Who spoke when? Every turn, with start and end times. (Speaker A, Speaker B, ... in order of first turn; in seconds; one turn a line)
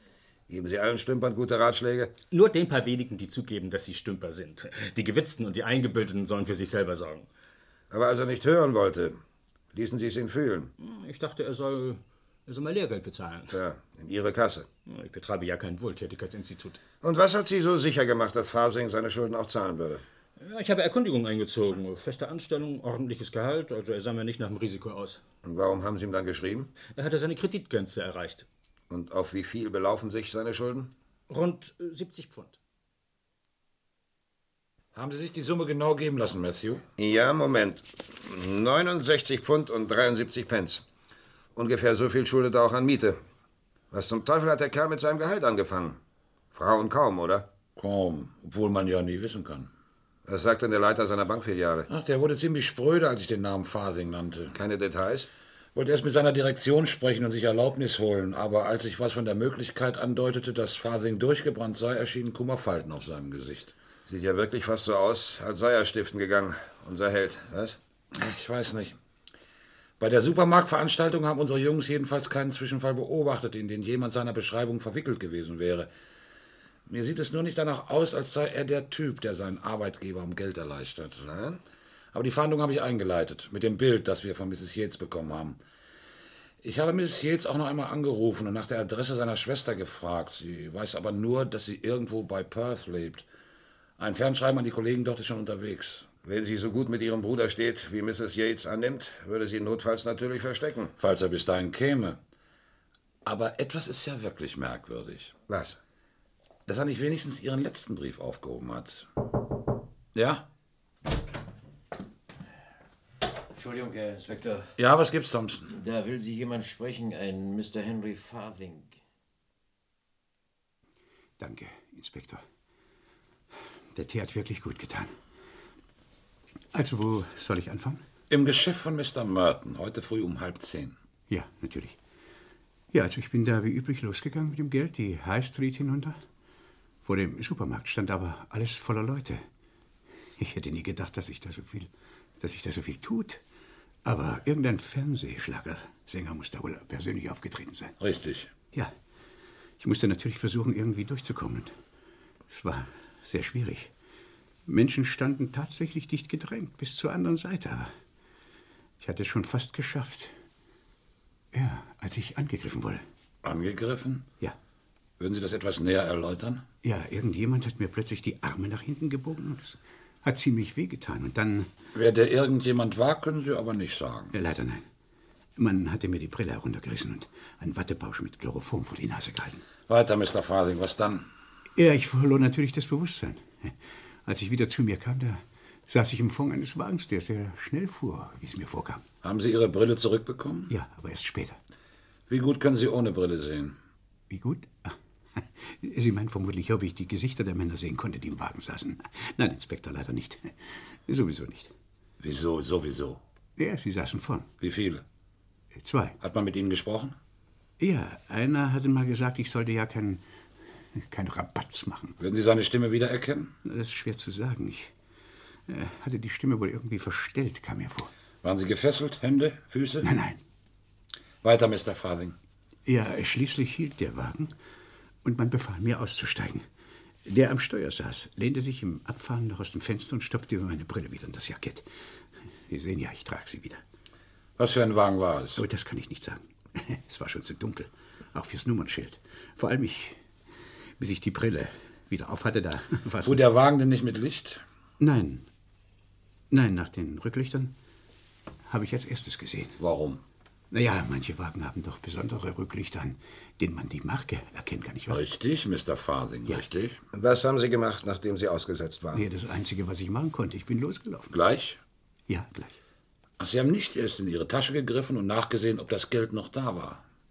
Speaker A: 0.5-2.1
Speaker B: 2.3-7.3
Speaker A: 7.9-9.2
Speaker A: 9.7-10.7
Speaker B: 10.8-13.5
Speaker A: 13.5-14.7
Speaker B: 14.9-16.8
Speaker A: 17.0-20.0
Speaker B: 20.4-25.2
Speaker A: 25.4-26.7
Speaker B: 26.9-28.4
Speaker A: 28.9-30.9
Speaker B: 31.3-32.6
Speaker C: 34.9-36.8
Speaker A: 37.0-40.8
Speaker A: 41.5-43.2
Speaker A: 43.9-46.0
Speaker A: 46.5-47.5
Speaker C: 47.8-49.7
Speaker A: 50.2-51.9
Speaker C: 51.9-54.5
Speaker A: 54.5-55.3
Speaker C: 55.7-63.7
Speaker A: 64.1-67.8
Speaker C: 68.1-69.0
Speaker C: 70.0-75.9
Speaker C: 76.9-81.2
Speaker A: 81.2-81.6
Speaker C: 82.1-85.6
Speaker C: 86.6-93.2
Speaker C: 94.0-96.0
Speaker A: 96.2-100.9
Speaker C: 101.0-102.2
Speaker C: 103.2-105.3
Speaker A: 105.5-105.8
Speaker C: 106.7-109.0
Speaker C: 110.1-110.4
Speaker D: 113.5-114.7
Speaker C: 114.8-115.7
Speaker D: 115.7-119.0
Speaker E: 121.4-122.4
Speaker E: 123.9-125.2
Speaker E: 126.7-128.0
Speaker C: 128.3-130.9
Speaker E: 131.3-132.0
Speaker E: 132.9-136.2
Speaker E: 137.0-139.4
Speaker E: 140.4-143.4
Speaker E: 144.0-147.9
Speaker C: 148.0-148.5
Speaker E: 149.8-151.7
Speaker E: 152.5-153.9
Speaker E: 154.7-157.9
Speaker E: 159.0-160.3
Speaker E: 161.5-163.0
Speaker C: 163.4-164.3
Speaker C: 165.2-166.6
Speaker E: 166.8-171.7
Speaker C: 171.9-174.3
Speaker E: 174.3-174.9
Speaker E: 175.6-179.6
Speaker C: 179.9-181.3
Speaker E: 181.8-189.0
Speaker C: 189.2-190.7
Speaker E: 190.7-191.6
Speaker C: 192.3-193.8
Speaker E: 194.3-201.7
Speaker C: 202.2-203.2
Speaker E: 203.6-204.5
Speaker C: 204.6-205.0
Speaker E: 205.7-206.2
Speaker C: 206.2-207.2
Speaker E: 207.8-210.2
Speaker E: 210.9-212.2
Speaker C: 212.2-213.6
Speaker E: 213.6-214.9
Speaker E: 215.7-218.1
Speaker C: 218.4-220.1
Speaker E: 220.0-220.4
Speaker C: 221.4-222.3
Speaker E: 222.8-224.5
Speaker E: 225.2-226.7
Speaker E: 227.2-231.9
Speaker E: 232.7-233.8
Speaker C: 234.6-235.6
Speaker E: 235.5-240.2
Speaker E: 241.0-243.4
Speaker C: 243.2-244.6
Speaker E: 245.0-245.5
Speaker E: 246.5-247.8
Speaker E: 248.7-249.8
Speaker C: 249.8-250.2
Speaker E: 250.7-255.2
Speaker C: 255.1-257.0
Speaker A: 257.1-259.2
Speaker E: 259.1-261.4
Speaker C: 261.3-261.8
Speaker E: 262.3-262.8
Speaker C: 263.4-267.0